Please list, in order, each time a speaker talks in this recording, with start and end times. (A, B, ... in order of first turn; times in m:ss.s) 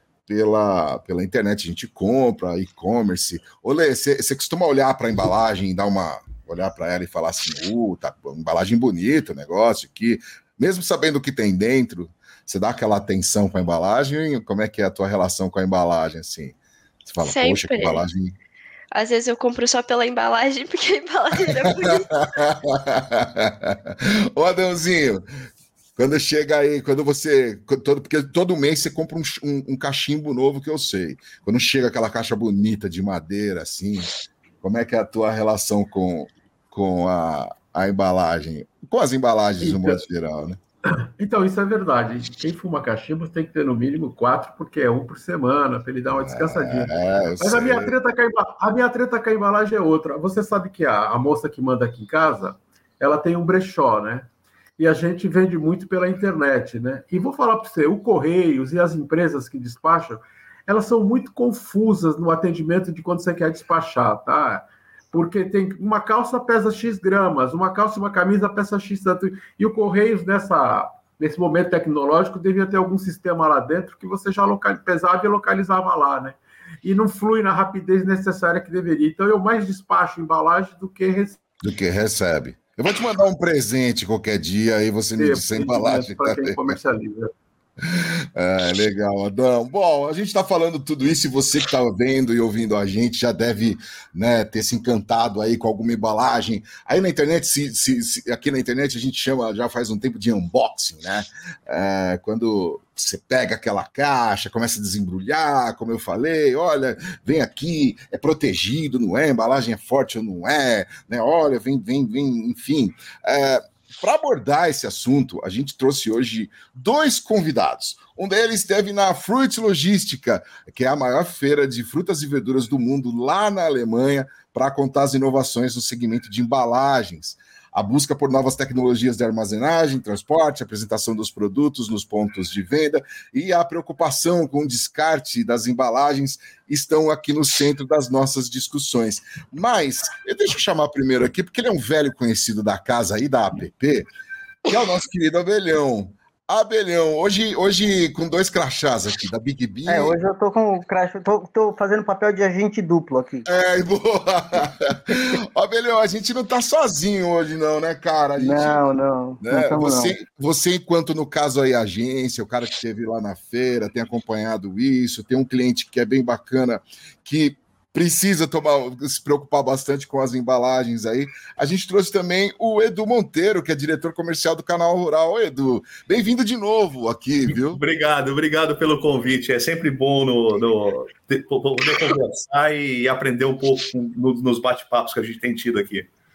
0:00.3-0:18.4 A
0:17.2-0:18.0 B
0:18.9-0:22.3 B
0:21.4-0:25.2 A
0:26.0-0:40.6 A
0:39.6-0:40.0 C
0:41.2-1:21.4 C
0:46.1-0:48.0 A
1:21.6-1:26.8 A
1:25.2-1:27.3 C
1:27.8-2:24.1 A
2:24.6-2:30.2 A
2:29.9-2:33.5 D
2:33.4-2:38.8 A
2:38.4-2:40.2 D
2:39.4-2:57.8 A
2:57.5-3:06.1 E